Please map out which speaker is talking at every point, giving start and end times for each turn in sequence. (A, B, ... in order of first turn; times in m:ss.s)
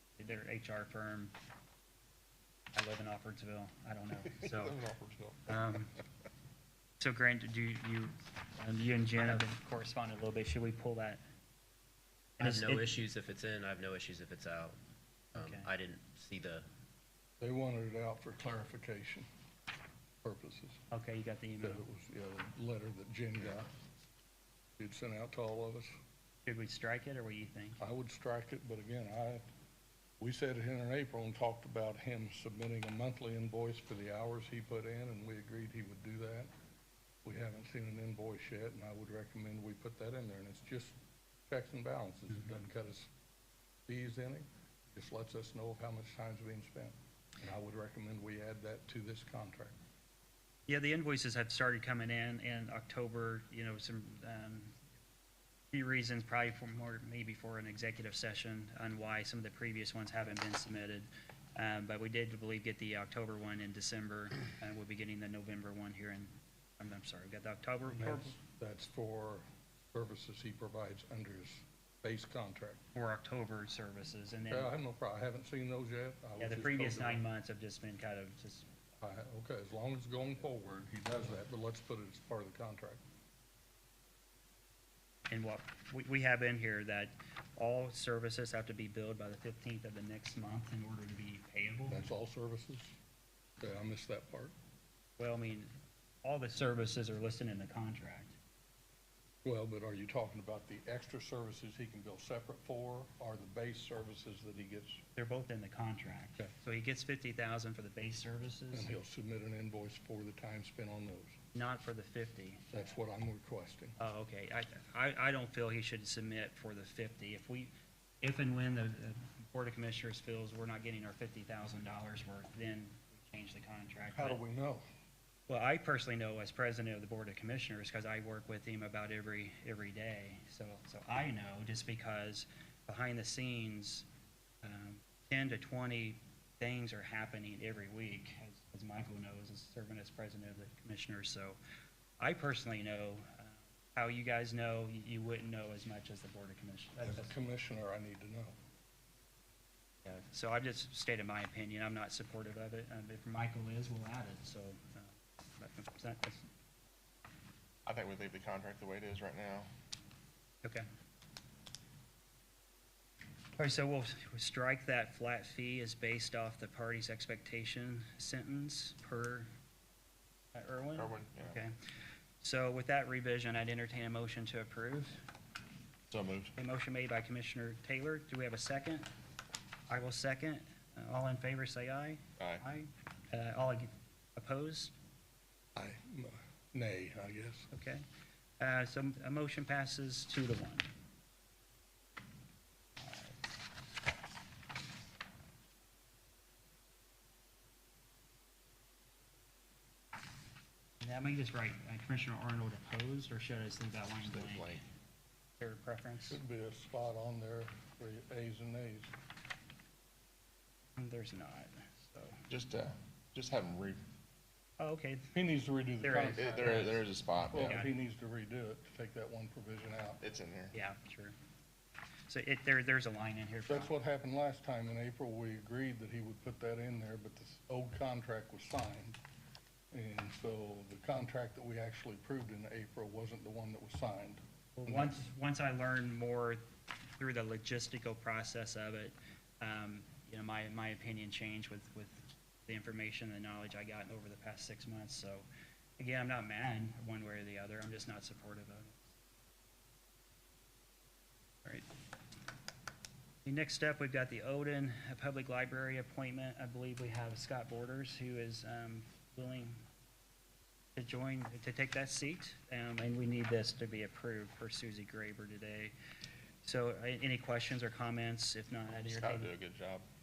0:00.2-0:01.3 A
0:02.7-0:04.8 A
0:04.3-0:05.4 B
0:05.5-0:06.0 A
0:07.0-0:11.2 A
0:12.4-0:12.9 A
0:12.4-0:14.8 C
0:15.3-0:16.7 C
0:15.4-0:15.7 A
0:17.4-0:19.3 D
0:20.2-0:20.8 D
0:20.9-0:21.8 A
0:21.6-0:23.7 D
0:24.8-0:26.0 D
0:26.4-0:27.8 A
0:27.8-0:29.4 D
0:30.2-0:36.5 D
0:37.2-0:41.0 D
0:41.5-0:43.1 D
0:43.9-0:49.8 D
0:50.7-0:54.8 A
0:55.7-1:08.3 A
1:08.0-1:12.8 D
1:12.9-1:14.7 A
1:14.5-1:17.2 D
1:16.4-1:18.7 A
1:19.0-1:23.0 D
1:25.3-1:32.0 A
1:31.9-1:32.9 D
1:33.6-1:34.5 D
1:35.2-1:35.7 A
1:36.2-1:38.4 A
1:39.4-1:45.0 D
1:45.2-1:48.9 A
1:48.7-1:51.4 D
1:51.6-1:52.8 A
1:52.7-1:54.0 D
1:54.0-2:04.4 A
2:04.2-2:04.8 D
2:05.5-2:14.1 A
2:14.6-2:21.6 A
2:22.2-2:27.3 A
2:27.0-2:28.6 D
2:30.0-2:36.5 A
2:37.9-2:39.7 B
2:43.6-2:49.5 A
2:50.5-2:51.8 A
2:51.0-2:51.6 B
2:52.4-2:55.2 A
2:56.1-2:56.5 B
2:56.6-2:59.1 A
2:59.9-3:04.9 A
3:02.4-3:02.6 B
3:05.8-3:07.7 D
3:07.7-3:08.0 A
3:08.6-3:10.9 A
3:13.0-3:13.3 A
3:21.0-3:24.8 A
3:24.2-3:24.8 B
3:25.6-3:26.4 A
3:26.3-3:29.1 D
3:31.0-3:32.4 A
3:32.5-3:34.0 B
3:34.8-3:35.3 A
3:35.3-3:36.9 D
3:36.0-3:38.0 A
3:36.3-3:37.8 B
3:37.5-3:40.2 D
3:40.2-3:40.8 B
3:40.7-3:41.4 A
3:42.3-3:43.9 A
3:43.7-3:49.2 D
3:49.9-3:55.2 D
3:54.8-3:56.6 A
3:57.2-4:05.5 A
4:06.0-4:09.1 A
4:13.4-4:19.8 A
4:21.0-4:25.9 A
4:26.6-4:29.5 A
4:29.0-4:30.0 B